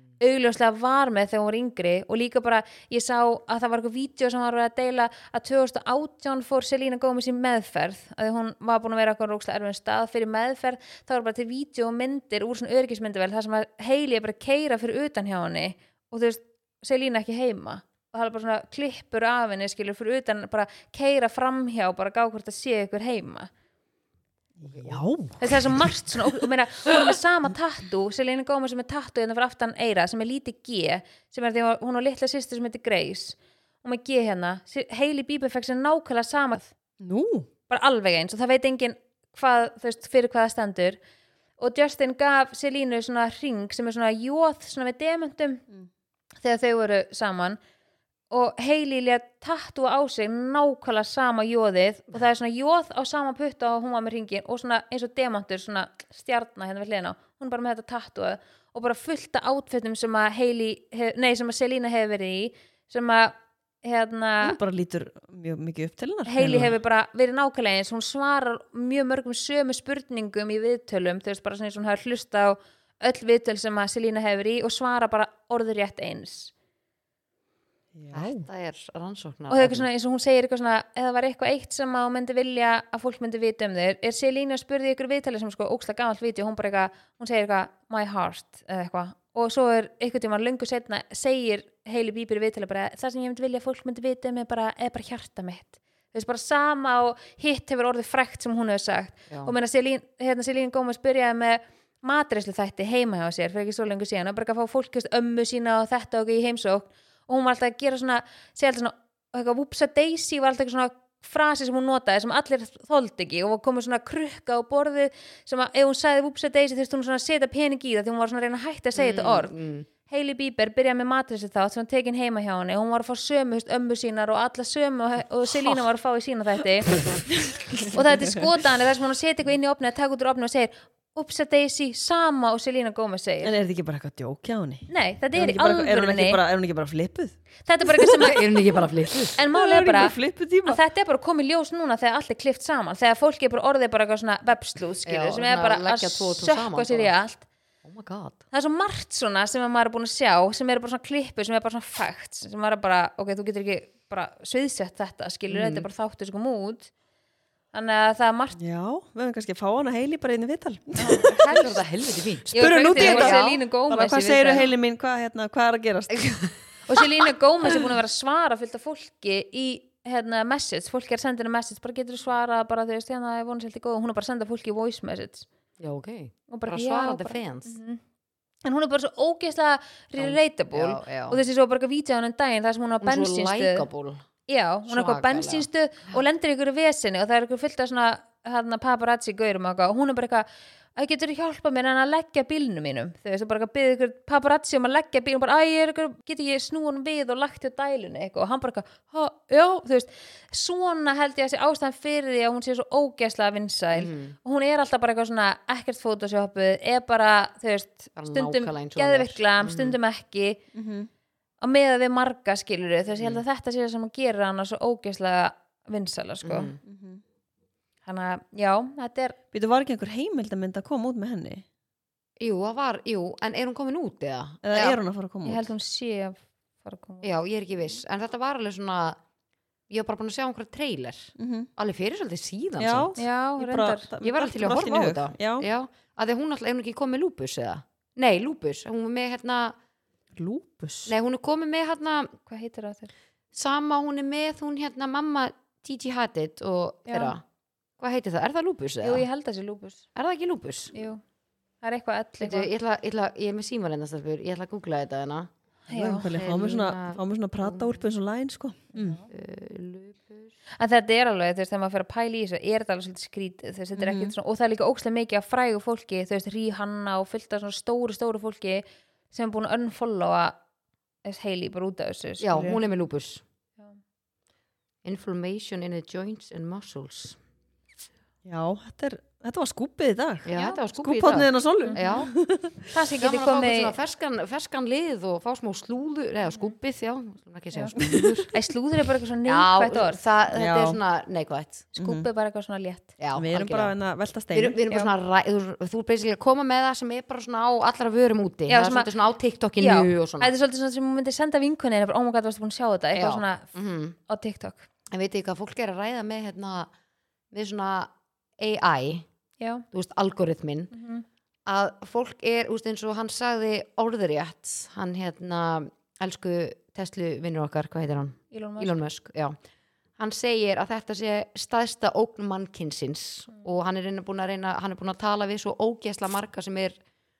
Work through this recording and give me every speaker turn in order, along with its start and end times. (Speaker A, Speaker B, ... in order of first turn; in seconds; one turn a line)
Speaker A: 0.2-23.5
Speaker B: 24.6-25.9
Speaker C: 24.7-25.0
Speaker A: 25.4-36.7
Speaker B: 37.0-37.5
Speaker A: 37.7-41.0
Speaker A: 41.6-45.6
Speaker A: 46.4-47.6
Speaker A: 48.3-64.6
Speaker B: 64.4-66.7
Speaker A: 66.3-76.5
Speaker B: 77.9-78.5
Speaker C: 78.1-79.9
Speaker A: 79.5-119.5
Speaker C: 119.0-119.9
Speaker A: 120.1-126.9
Speaker B: 127.4-128.4
Speaker A: 127.9-133.5
Speaker B: 133.4-137.4
Speaker A: 134.9-136.4
Speaker A: 137.7-138.5
Speaker C: 138.1-139.4
Speaker B: 139.3-140.8
Speaker A: 139.4-140.1
Speaker A: 140.6-147.5
Speaker C: 145.1-147.1
Speaker C: 147.8-148.4
Speaker A: 148.5-156.9
Speaker C: 155.5-155.9
Speaker A: 157.7-158.6
Speaker B: 158.6-161.8
Speaker C: 161.0-163.6
Speaker A: 162.5-164.7
Speaker B: 162.6-166.5
Speaker A: 166.9-175.5
Speaker C: 175.8-177.8
Speaker A: 176.5-178.0
Speaker A: 178.7-183.9
Speaker C: 180.2-181.4
Speaker C: 183.0-184.2
Speaker A: 184.5-210.6
Speaker C: 184.9-185.7
Speaker C: 203.9-204.4
Speaker C: 208.2-210.0
Speaker B: 210.7-211.1
Speaker A: 211.6-216.8
Speaker C: 213.1-213.4
Speaker C: 216.4-216.8
Speaker B: 216.8-217.2
Speaker A: 218.1-219.4
Speaker B: 219.5-221.7
Speaker C: 222.4-225.0
Speaker B: 224.6-225.7
Speaker A: 225.4-227.3
Speaker C: 227.2-229.2
Speaker C: 229.9-233.1
Speaker B: 231.4-231.7
Speaker B: 232.8-235.7
Speaker A: 233.2-234.1
Speaker C: 234.2-239.8
Speaker B: 240.4-241.1
Speaker C: 241.1-242.3
Speaker A: 242.5-243.1
Speaker C: 243.5-247.4
Speaker A: 247.1-247.3
Speaker C: 248.0-249.2
Speaker A: 249.0-250.0
Speaker C: 250.2-250.9
Speaker A: 250.9-251.2
Speaker A: 251.8-252.7
Speaker C: 252.4-255.5
Speaker A: 255.9-256.3
Speaker B: 255.9-259.2
Speaker C: 256.3-258.0
Speaker A: 258.9-259.2
Speaker C: 259.3-260.5
Speaker A: 260.8-270.6
Speaker B: 264.0-264.3
Speaker A: 271.2-272.8
Speaker C: 272.4-273.4
Speaker C: 275.0-277.4
Speaker B: 278.4-282.9
Speaker C: 280.4-282.3
Speaker A: 282.9-283.9
Speaker C: 283.2-288.5
Speaker B: 288.0-288.5
Speaker A: 288.5-290.2
Speaker C: 289.5-291.9
Speaker B: 290.5-291.0
Speaker A: 291.9-293.1
Speaker B: 292.0-292.3
Speaker C: 293.2-293.9
Speaker B: 293.3-294.8
Speaker C: 294.5-300.5
Speaker A: 298.7-299.1
Speaker A: 299.8-303.7
Speaker C: 303.1-304.1
Speaker A: 304.3-304.9
Speaker C: 305.1-306.9
Speaker C: 307.5-309.2
Speaker A: 309.6-309.9
Speaker C: 309.9-310.9
Speaker A: 310.9-311.2
Speaker C: 311.6-319.6
Speaker A: 318.5-319.0
Speaker C: 320.2-327.0